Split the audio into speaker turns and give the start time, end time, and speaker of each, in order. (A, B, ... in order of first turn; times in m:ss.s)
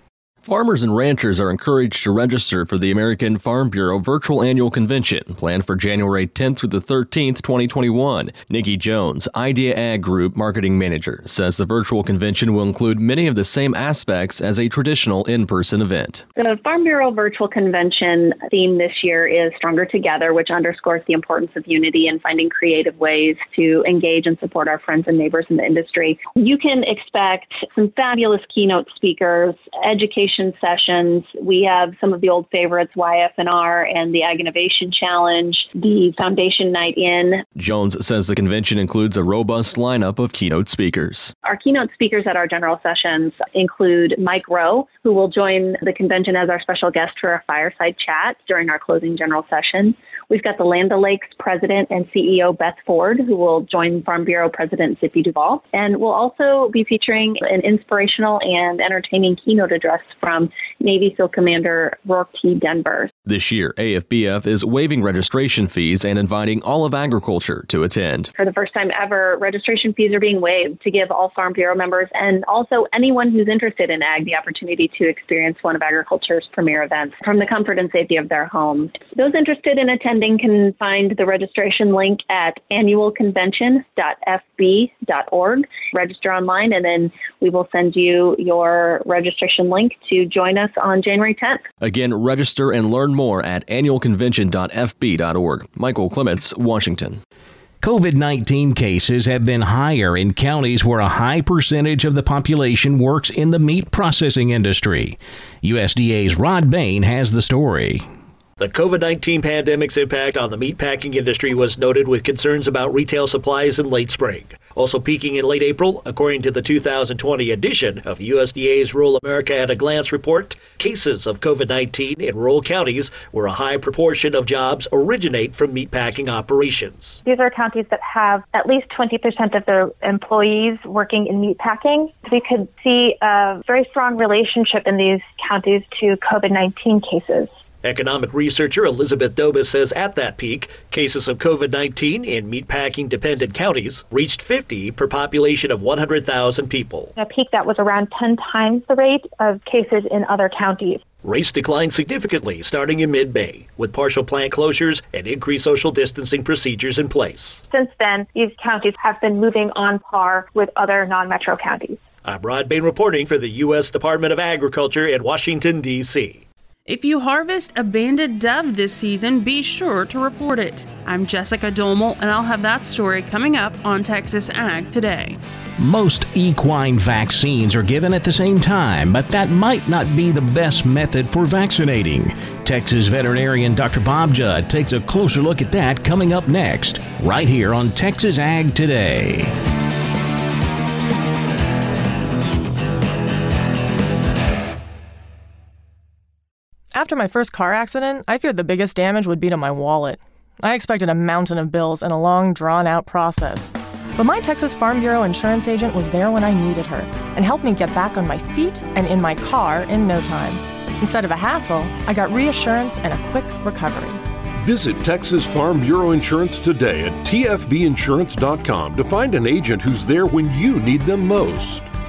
0:00.4-0:16.2 A
0:16.4-0:37.4 B
0:37.6-0:41.3 A
0:41.4-1:03.1 B
1:03.2-1:08.3 A
1:08.4-1:31.6 B
1:31.8-1:37.2 A
1:37.8-1:48.0 C
1:48.6-2:07.2 D
2:07.2-2:17.5 E
2:17.8-2:27.1 D
2:27.2-2:31.0 E
2:31.2-2:37.6 D
2:37.7-2:42.0 E
2:42.2-2:46.4 D
2:46.8-2:55.4 F
2:55.8-3:09.5 C
3:16.9-3:34.2 G
3:34.6-3:41.9 H